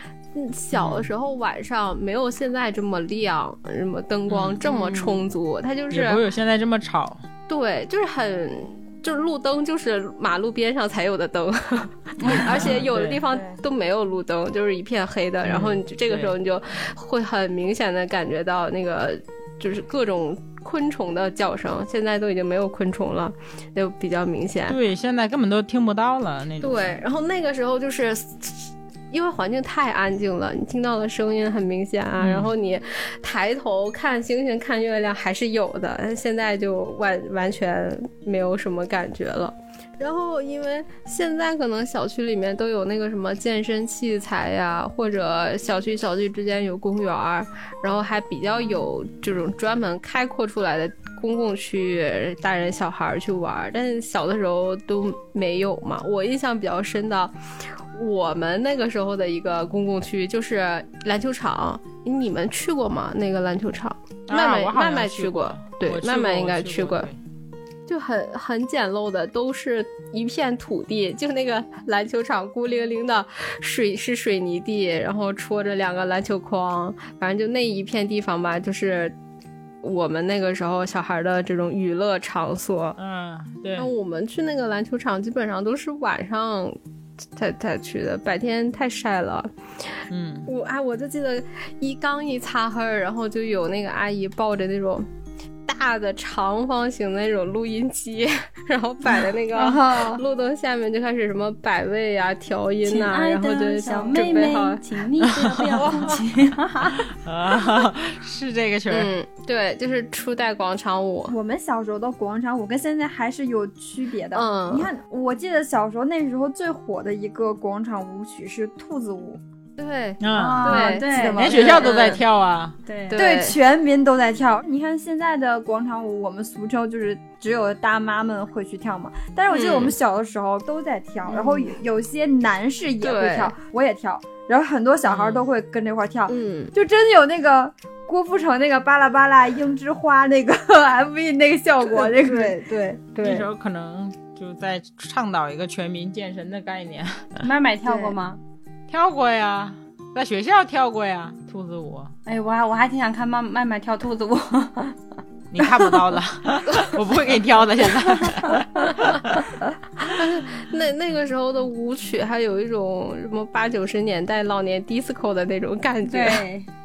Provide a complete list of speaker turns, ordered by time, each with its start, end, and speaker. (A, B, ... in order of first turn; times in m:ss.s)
0:00.3-0:06.2 A
0:00.7-0:01.1 B
0:04.3-0:04.6 B
0:04.6-0:05.2 C
0:05.9-0:07.2 B
0:07.5-0:24.8 A
0:12.2-0:12.8 C
0:12.6-0:13.2 B
0:15.4-0:16.3 B
0:24.7-0:27.0 B
0:26.6-1:07.1 A
0:32.2-0:32.5 B
1:04.3-1:07.2 B
1:07.9-1:19.1 A
1:19.8-1:23.0 A
1:23.0-1:23.9 B
1:23.8-1:26.8 A
1:27.4-1:29.5 A
1:30.1-1:30.5 B
1:30.4-1:35.1 A
1:35.6-1:44.8 A
1:39.5-1:40.2 D
1:42.8-1:47.0 C
1:44.1-1:44.5 D
1:45.4-1:45.8 B
1:47.2-1:49.1 B
1:48.9-1:51.3 A
1:51.3-1:59.4 D
1:54.3-1:54.9 A
1:59.8-2:01.2 A
2:00.2-2:00.7 B
2:00.4-2:02.2 C
2:00.6-2:02.1 D
2:01.3-2:02.8 B
2:02.8-2:03.2 C
2:03.1-2:03.6 A
2:03.1-2:22.6 D
2:09.5-2:09.9 A
2:11.3-2:11.6 C
2:13.0-2:13.5 A
2:15.1-2:15.4 B
2:16.3-2:16.7 A
2:21.8-2:23.4 C
2:23.2-2:27.4 B
2:27.4-2:28.4 C
2:27.8-2:28.1 D
2:28.9-2:32.1 B
2:32.2-2:35.0 C
2:35.5-2:39.4 B
2:40.0-2:46.4 A
2:46.0-2:46.7 C